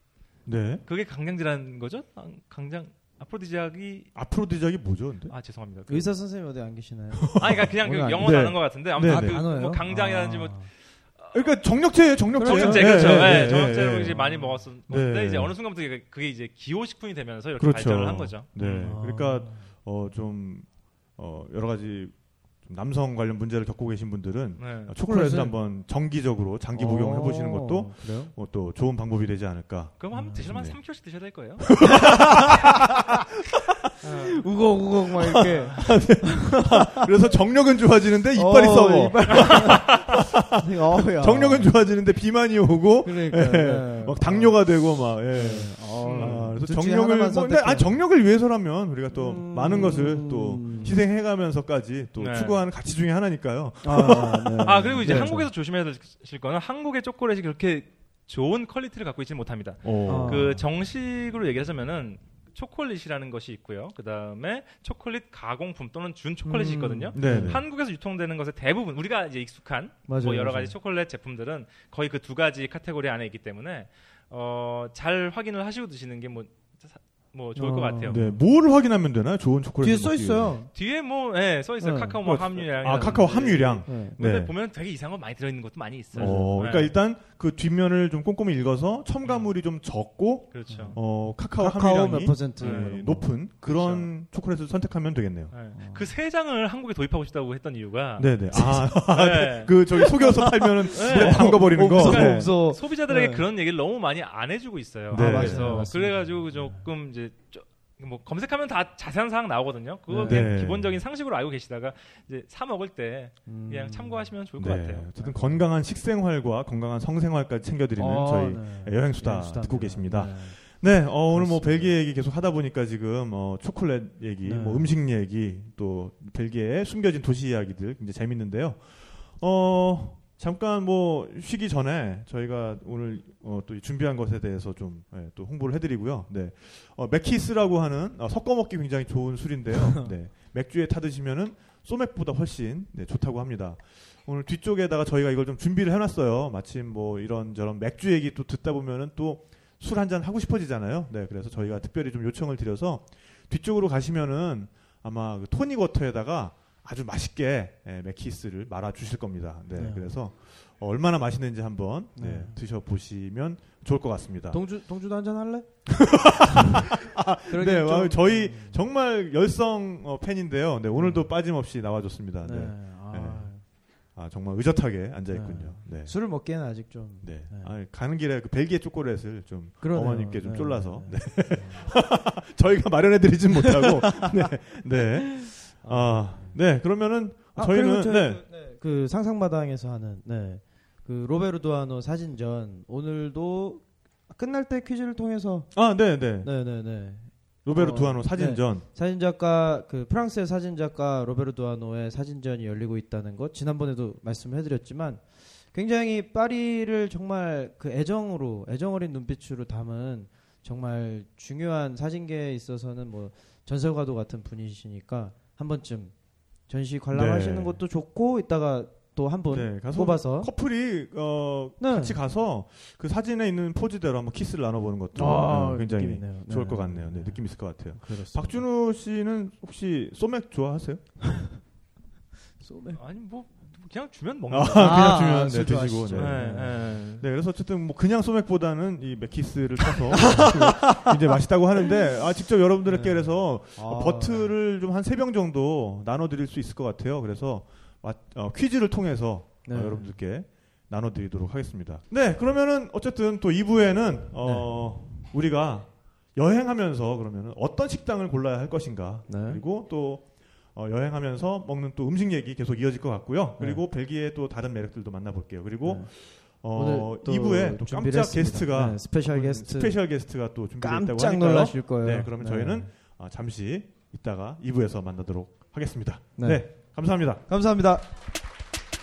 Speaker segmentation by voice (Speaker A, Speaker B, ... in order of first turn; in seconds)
Speaker A: 0.5-0.8, 4.2-5.3, 7.2-9.4, 11.3-14.2, 14.9-15.5, 17.6-30.8, 31.8-33.0, 35.2-55.4, 59.8-60.5, 67.1-67.7, 78.1-80.6, 82.2-84.5, 86.2-95.5, 98.2-102.5, 105.1-105.9, 110.2-111.0, 114.6-164.6, 165.9-173.5, 174.2-176.1, 177.2-188.4, 195.7-196.5, 197.7-198.8, 217.1-217.8, 219.5-231.0, 234.5-277.4
Speaker B: 0.9-4.1, 5.3-6.1, 7.4-11.5, 12.4-19.0, 24.6-25.0, 30.0-31.9, 34.0-34.5, 39.3-39.8, 46.0-46.5, 52.2-52.6, 54.6-78.2, 80.7-86.9, 90.5-91.0, 92.6-93.0, 93.7-94.1, 95.5-99.7, 100.9-115.4, 233.0-235.1, 236.1-237.3
Speaker C: 5.9-10.7, 12.3-14.6, 18.8-19.6, 25.1-25.6, 26.7-28.3, 30.1-30.4, 32.0-32.9, 34.0-37.1, 38.3-41.7, 43.0-44.6, 45.3-48.0, 49.1-51.0, 53.8-55.5, 60.1-60.6, 66.4-67.6, 70.1-70.7, 77.6-78.4, 79.8-80.7, 81.8-82.2, 83.9-84.2, 86.2-86.6, 90.7-93.3, 95.7-96.1, 98.5-98.9, 100.0-103.4, 105.1-106.8, 110.1-110.5, 113.5-114.3, 118.0-120.6, 121.3-122.0, 124.5-124.9, 159.8-160.2, 162.2-162.6, 164.5-165.7, 166.6-166.9, 167.5-168.8, 170.9-171.3, 172.4-173.6, 175.3-177.7, 179.8-181.9, 183.6-184.4, 185.4-186.6, 187.6-195.7, 196.4-216.1, 216.7-220.5, 221.8-222.2, 225.2-228.6, 231.2-231.6, 232.6-233.0, 234.8-236.9, 240.1-241.3, 242.9-244.5, 249.7-250.2, 254.4-254.7, 259.3-259.6, 265.8-266.1, 266.7-270.0, 270.8-272.9, 276.4-276.7, 277.5-278.1